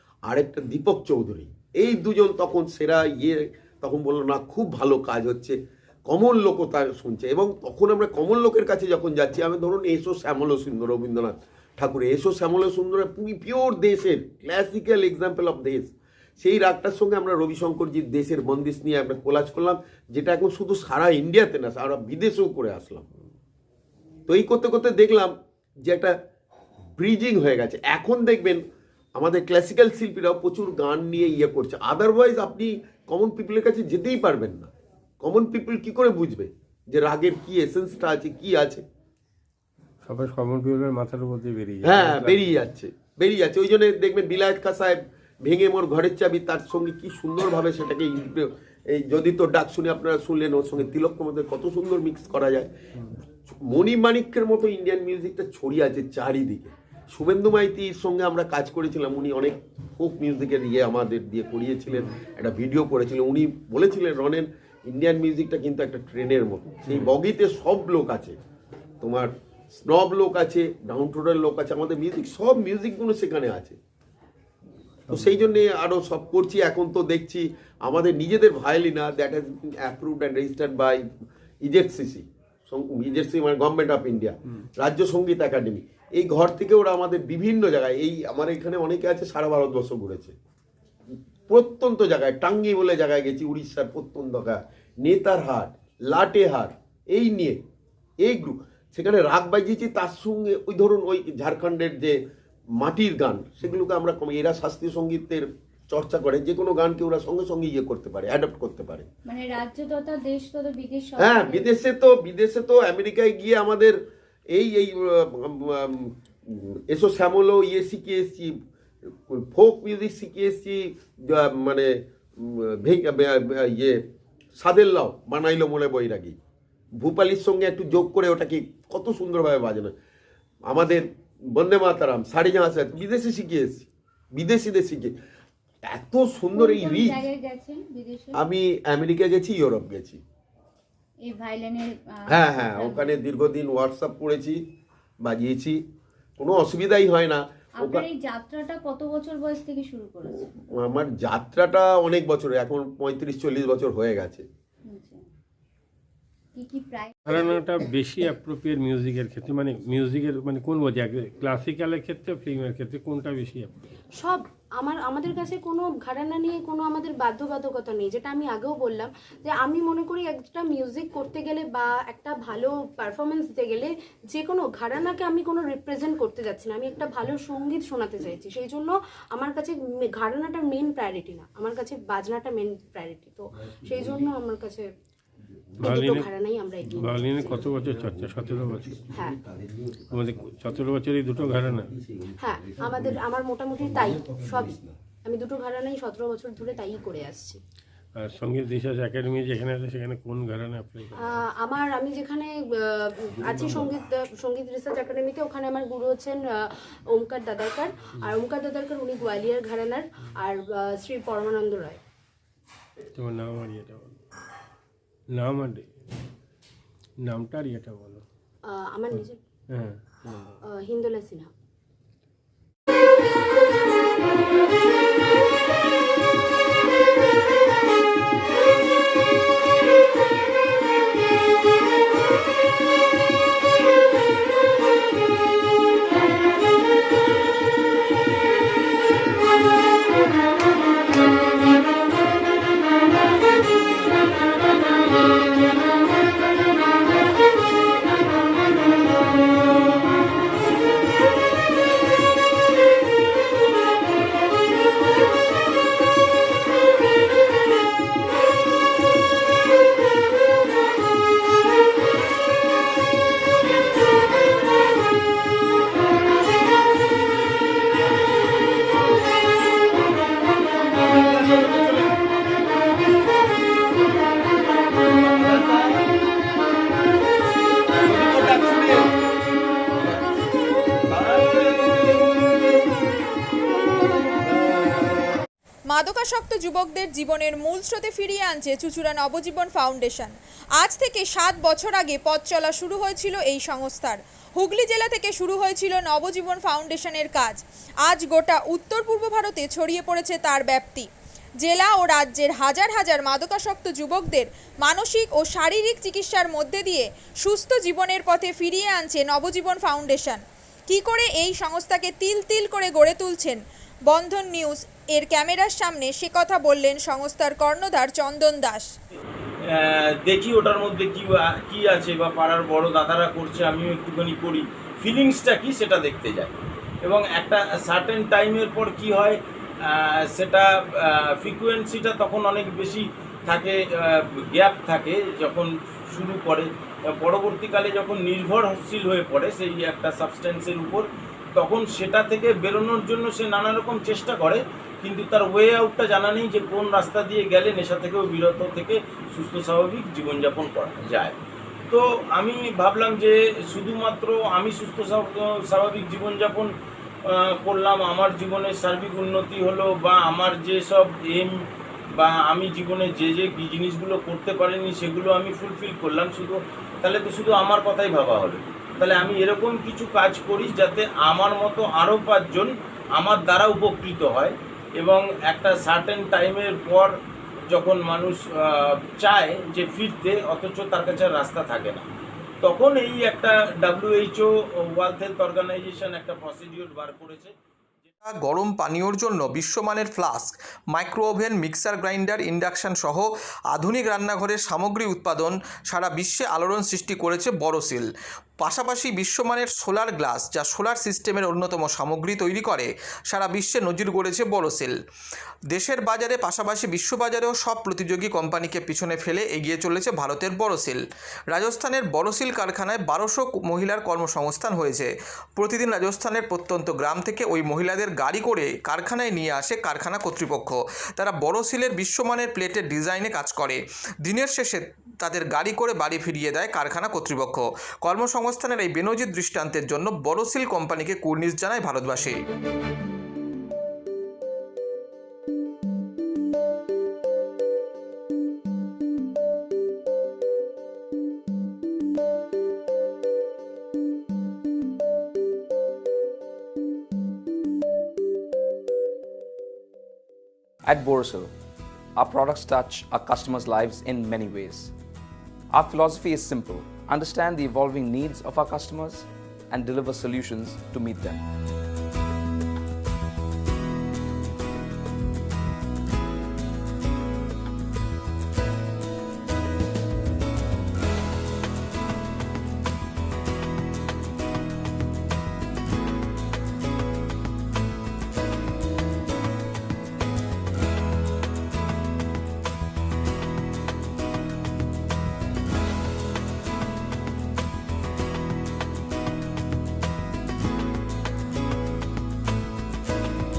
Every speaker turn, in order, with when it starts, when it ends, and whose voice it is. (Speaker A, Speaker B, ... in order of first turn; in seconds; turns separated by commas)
Speaker A: 0.2-23.0, Speaker A: 24.3-26.1, Speaker A: 26.9-28.6, Speaker A: 29.1-34.7, Speaker A: 35.2-38.8, Speaker B: 40.0-42.5, Speaker A: 41.8-52.7, Speaker A: 53.5-68.4, Speaker A: 69.0-73.8, Speaker A: 75.1-81.0, Speaker A: 81.6-90.3, Speaker A: 91.5-97.6, Speaker A: 98.2-102.2, Speaker A: 102.8-109.1, Speaker C: 109.2-111.8, Speaker A: 111.2-114.0, Speaker A: 114.5-118.6, Speaker A: 119.1-124.0, Speaker A: 124.5-126.3, Speaker A: 127.0-129.9, Speaker A: 130.7-135.1, Speaker A: 135.8-137.2, Speaker C: 136.5-138.4, Speaker A: 138.3-140.2, Speaker C: 141.2-143.1, Speaker A: 142.3-144.6, Speaker A: 145.2-145.8, Speaker A: 146.4-148.1, Speaker C: 147.8-150.5, Speaker A: 150.7-154.4, Speaker C: 154.9-155.2, Speaker C: 156.5-157.4, Speaker B: 157.2-163.8, Speaker D: 164.2-184.9, Speaker B: 185.8-186.3, Speaker D: 185.8-187.1, Speaker B: 186.9-189.1, Speaker D: 189.1-189.4, Speaker B: 190.1-192.0, Speaker D: 192.4-197.6, Speaker B: 198.2-201.3, Speaker D: 201.2-212.0, Speaker B: 213.2-214.2, Speaker B: 215.3-215.9, Speaker B: 217.2-218.2, Speaker D: 218.6-219.4, Speaker B: 219.7-220.0, Speaker D: 220.6-221.5, Speaker E: 271.0-272.1, Speaker E: 274.9-276.0, Speaker E: 278.0-279.1, Speaker E: 281.1-282.4, Speaker E: 284.5-285.2, Speaker F: 285.9-301.1, Speaker F: 301.6-318.9, Speaker E: 319.7-341.1, Speaker E: 341.6-351.4, Speaker E: 351.9-356.7, Speaker E: 357.3-361.5, Speaker E: 362.1-377.1, Speaker E: 377.7-382.0, Speaker E: 382.6-387.5, Speaker G: 388.2-398.1, Speaker G: 398.6-404.9, Speaker G: 405.7-432.4, Speaker H: 450.8-451.5, Speaker H: 452.1-454.9, Speaker H: 455.7-461.4